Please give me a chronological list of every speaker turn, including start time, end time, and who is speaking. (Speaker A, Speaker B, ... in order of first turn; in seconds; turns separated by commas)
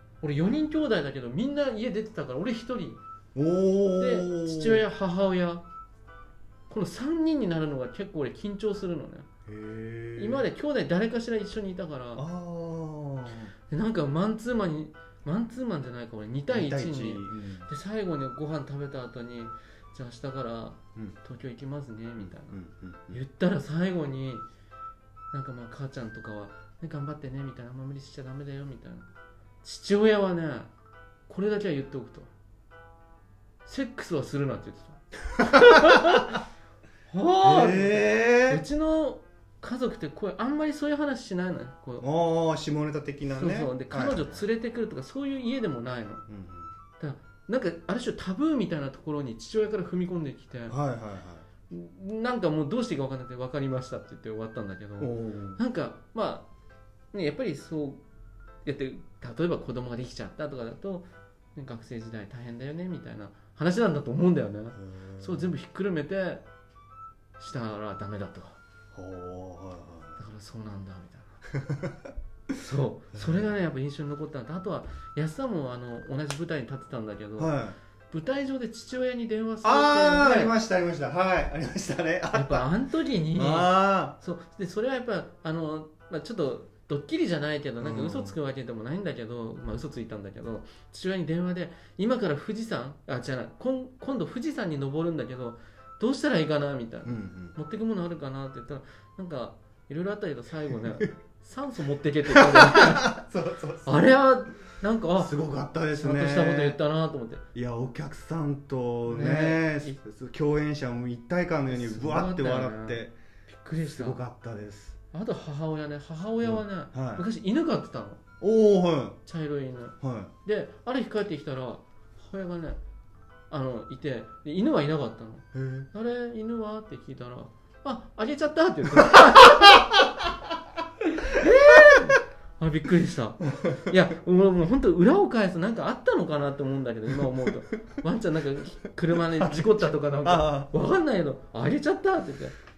Speaker A: 0.2-3.0, Speaker B: 3.3-4.8, Speaker A: 4.0-5.6, Speaker A: 6.7-9.2, Speaker B: 9.5-10.4, Speaker A: 10.2-12.2, Speaker B: 12.2-13.5, Speaker A: 13.7-22.6, Speaker B: 16.5-17.7, Speaker B: 22.2-23.2, Speaker A: 23.1-24.4, Speaker A: 25.3-29.1, Speaker A: 29.6-30.7, Speaker A: 31.3-32.3, Speaker A: 33.6-36.3, Speaker B: 35.9-36.2, Speaker A: 37.1-42.0, Speaker B: 37.4-38.6, Speaker B: 42.0-44.4, Speaker A: 43.3-46.2, Speaker B: 46.3-46.7, Speaker A: 47.0-50.8, Speaker B: 50.7-51.5, Speaker A: 51.7-56.5, Speaker B: 55.0-55.6, Speaker A: 57.1-58.0, Speaker A: 58.6-66.4, Speaker B: 64.8-65.5, Speaker A: 67.4-68.6, Speaker B: 68.9-70.2, Speaker A: 70.2-71.3, Speaker B: 71.5-72.1, Speaker A: 72.6-77.6, Speaker B: 73.1-73.5, Speaker B: 77.4-77.8, Speaker A: 78.1-80.5, Speaker B: 79.6-82.7, Speaker A: 82.3-103.1, Speaker B: 83.3-84.2, Speaker B: 87.8-88.3, Speaker B: 97.0-97.6, Speaker B: 102.3-103.9, Speaker A: 103.8-105.3, Speaker B: 105.2-106.8, Speaker A: 105.9-107.4, Speaker B: 107.5-113.1, Speaker A: 109.0-110.0, Speaker A: 111.7-114.2, Speaker B: 113.8-115.0, Speaker A: 115.1-118.2, Speaker B: 116.4-117.2, Speaker B: 118.4-119.2, Speaker A: 119.2-122.8, Speaker B: 120.0-120.3, Speaker A: 123.5-130.0, Speaker B: 125.5-125.9, Speaker B: 129.4-129.7, Speaker A: 131.2-142.5, Speaker B: 133.6-133.9, Speaker B: 139.4-140.7